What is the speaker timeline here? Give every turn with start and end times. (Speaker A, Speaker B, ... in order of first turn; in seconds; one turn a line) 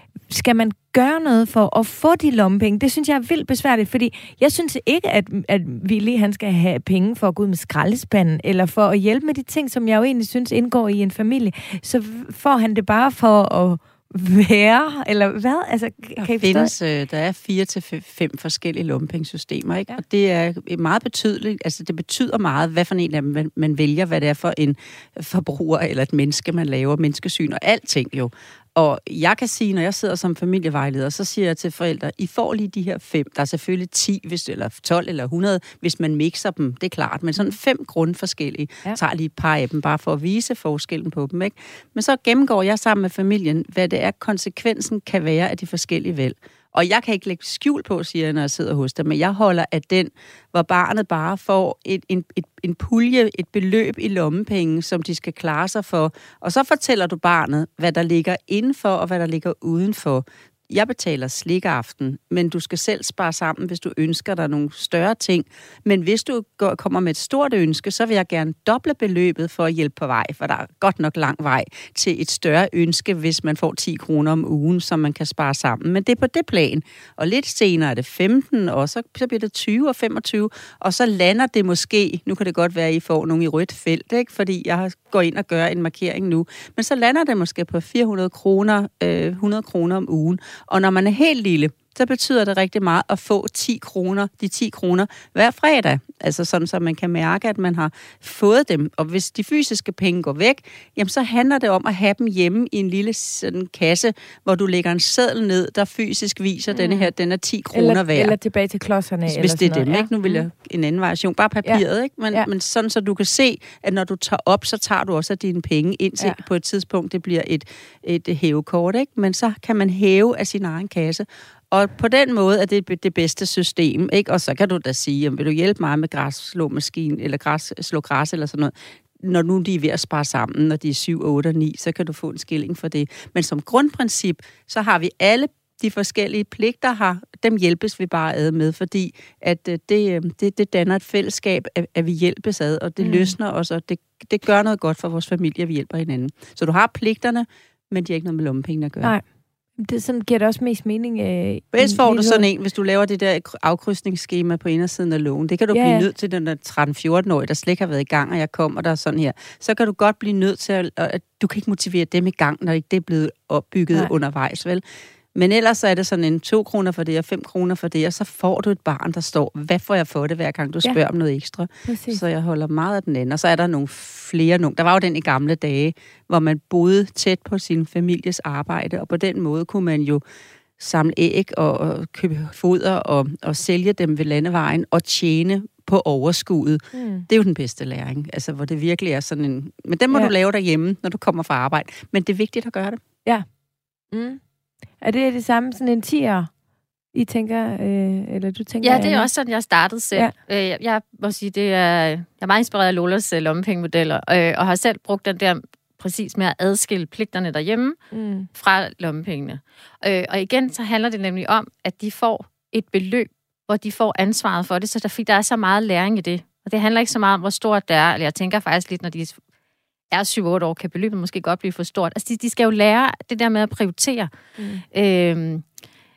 Speaker A: 0.3-16.7
Speaker B: 16.2-108.3
Speaker A: 106.7-107.1
Speaker A: 107.7-110.4
Speaker B: 109.2-149.1
Speaker A: 111.6-112.5
Speaker A: 143.0-143.3
Speaker A: 149.8-152.5
Speaker B: 151.7-164.8
Speaker A: 155.7-156.1
Speaker B: 165.3-180.2
Speaker A: 171.8-172.2
Speaker B: 180.8-193.0
Speaker A: 186.9-187.3
Speaker A: 194.1-194.4
Speaker A: 195.0-196.5
Speaker A: 197.1-199.3
Speaker C: 198.8-208.0
Speaker A: 208.1-208.5
Speaker C: 208.6-219.4
Speaker C: 220.1-224.3
Speaker A: 224.6-224.8
Speaker C: 224.9-225.6